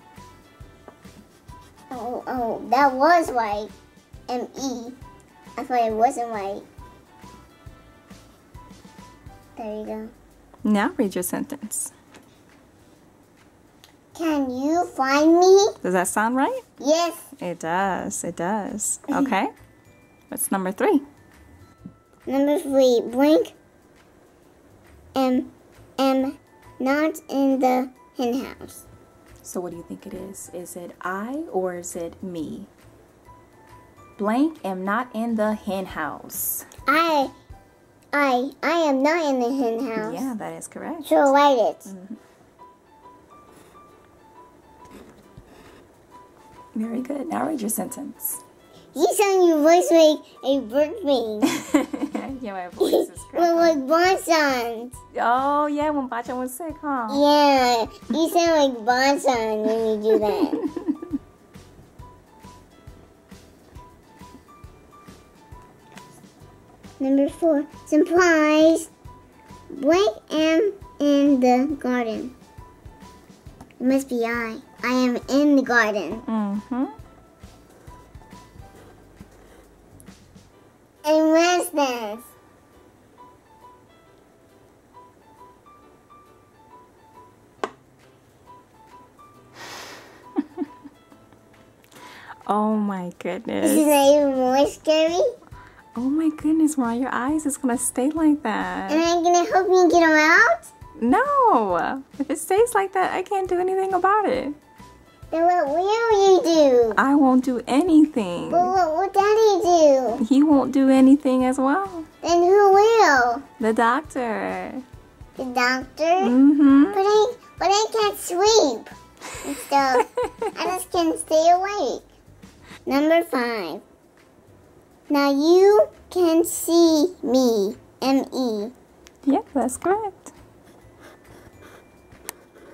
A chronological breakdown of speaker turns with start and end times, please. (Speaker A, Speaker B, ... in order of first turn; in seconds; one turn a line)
Speaker A: 1.9-3.7
Speaker A: 4.3-5.0
Speaker A: 5.6-6.7
Speaker A: 9.6-10.1
Speaker B: 10.6-11.9
Speaker A: 14.1-15.8
Speaker B: 15.8-16.6
Speaker A: 16.8-17.3
Speaker B: 17.4-19.5
Speaker B: 20.3-21.1
Speaker A: 22.3-23.6
Speaker A: 25.1-28.9
Speaker B: 29.4-32.7
Speaker B: 34.1-36.7
Speaker A: 36.9-37.3
Speaker A: 38.1-40.3
Speaker B: 40.0-41.3
Speaker A: 41.0-41.9
Speaker B: 41.9-42.2
Speaker B: 46.7-48.4
Speaker A: 48.9-51.6
Speaker B: 51.5-53.8
Speaker A: 52.8-55.0
Speaker B: 55.1-57.2
Speaker A: 57.1-60.6
Speaker B: 60.6-61.1
Speaker A: 67.0-68.9
Speaker A: 69.7-72.3
Speaker A: 73.8-76.2
Speaker B: 76.2-77.0
Speaker A: 81.0-82.3
Speaker B: 90.4-90.7
Speaker B: 92.5-93.9
Speaker A: 93.6-95.3
Speaker B: 95.9-99.0
Speaker A: 98.9-100.7
Speaker B: 101.0-104.6
Speaker A: 105.3-107.0
Speaker B: 107.0-108.7
Speaker A: 108.5-110.2
Speaker B: 110.2-112.1
Speaker A: 112.2-113.5
Speaker B: 113.6-114.8
Speaker A: 115.4-116.4
Speaker B: 116.2-117.0
Speaker A: 116.9-122.1
Speaker B: 119.4-120.5
Speaker A: 122.9-123.8
Speaker A: 125.1-128.7
Speaker B: 129.2-130.3